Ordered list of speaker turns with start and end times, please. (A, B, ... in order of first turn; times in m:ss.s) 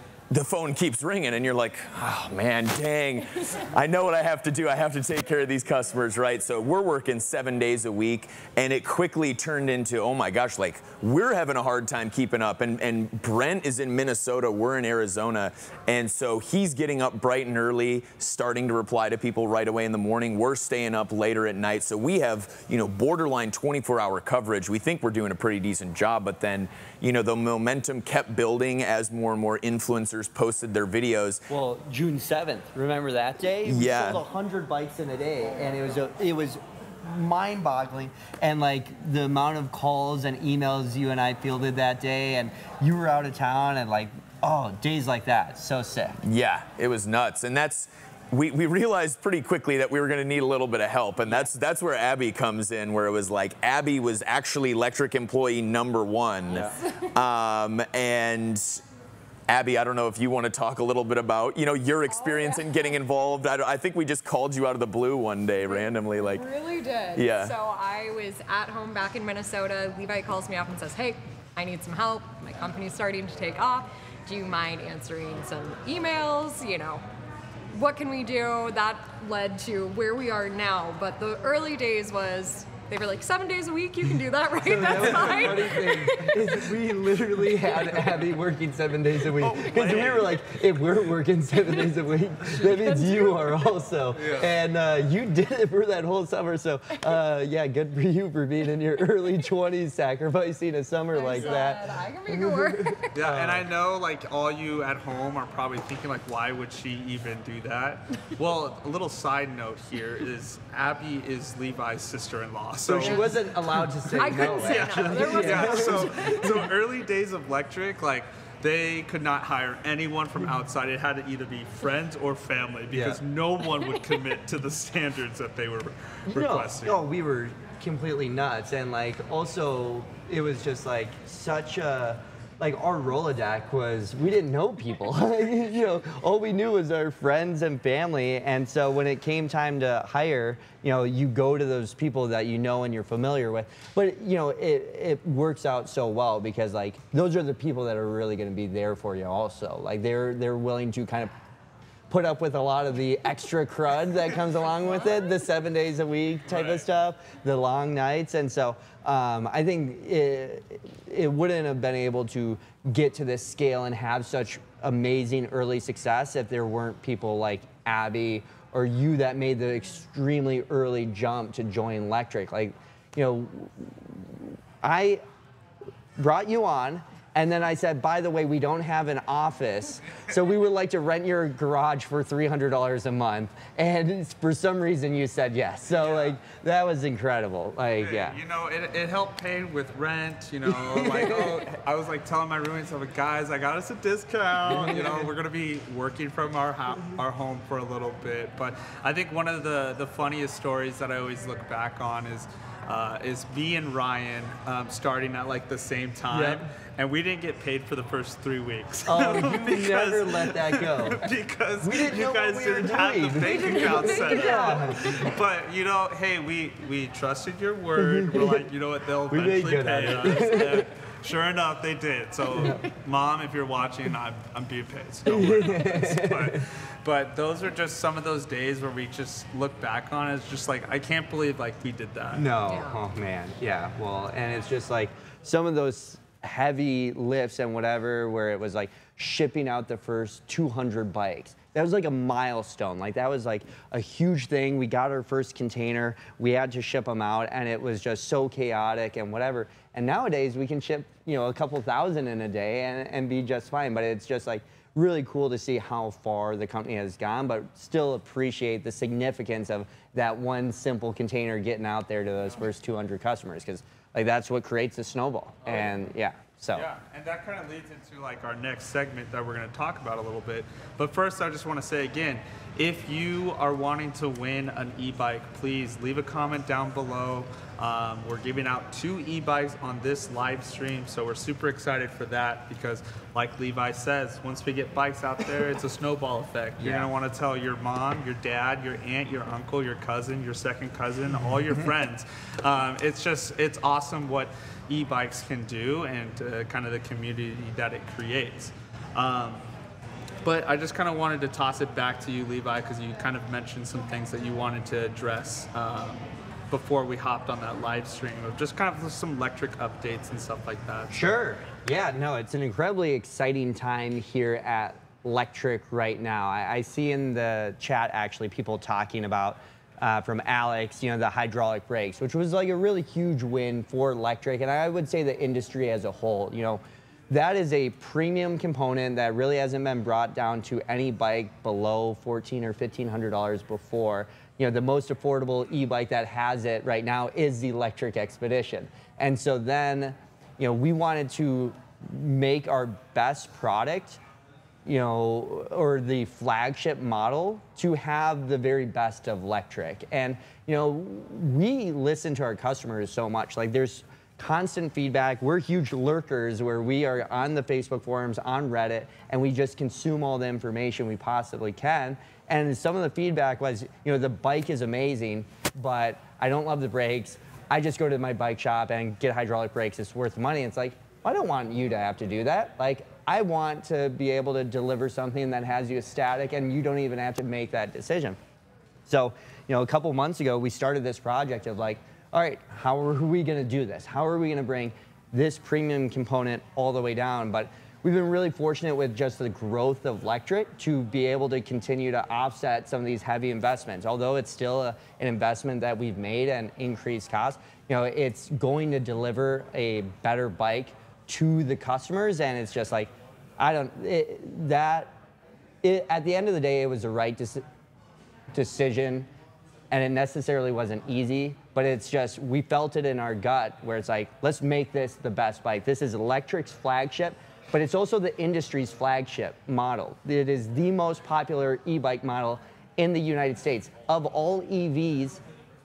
0:00.3-0:31.4 A
0:31.5-0:46.2 B
0:33.6-0:34.2 A
0:46.2-0:58.8 A
0:56.6-0:57.1 C
0:59.5-1:06.5 A
1:02.1-1:03.0 C
1:05.6-1:17.0 C
1:07.1-1:07.5 A
1:17.7-1:26.7 C
1:24.6-1:43.7 B
1:29.4-1:30.4 D
1:32.4-1:33.7 C
1:34.1-1:34.5 D
1:41.1-1:43.1 C
1:43.1-1:53.3 D
1:52.8-1:56.6 B
1:53.0-1:53.3 C
1:54.2-1:56.6 C
1:54.2-2:07.0 D
2:02.9-2:03.2 B
2:06.3-2:31.3 B
2:32.1-2:55.2 B
2:36.5-2:36.8 D
2:56.2-3:08.4 B
3:05.9-3:06.4 D
3:08.0-3:52.5 D
3:10.7-3:11.7 B
3:14.7-3:15.3 B
3:26.3-3:26.7 B
3:29.1-3:31.2 B
3:31.8-3:35.3 B
3:33.5-3:35.2 C
3:38.0-3:38.6 B
3:39.3-3:40.9 B
3:42.5-3:42.8 B
3:45.2-3:46.6 B
3:52.3-4:26.9 B
3:52.6-3:53.0 C
4:26.7-4:59.6 D
4:46.8-4:47.1 B
5:00.4-5:11.3 D
5:11.1-5:44.2 B
5:44.8-6:18.4 B
6:19.1-6:45.1 B
6:45.8-6:47.6 B
6:48.5-6:49.3 B
6:49.9-7:05.4 B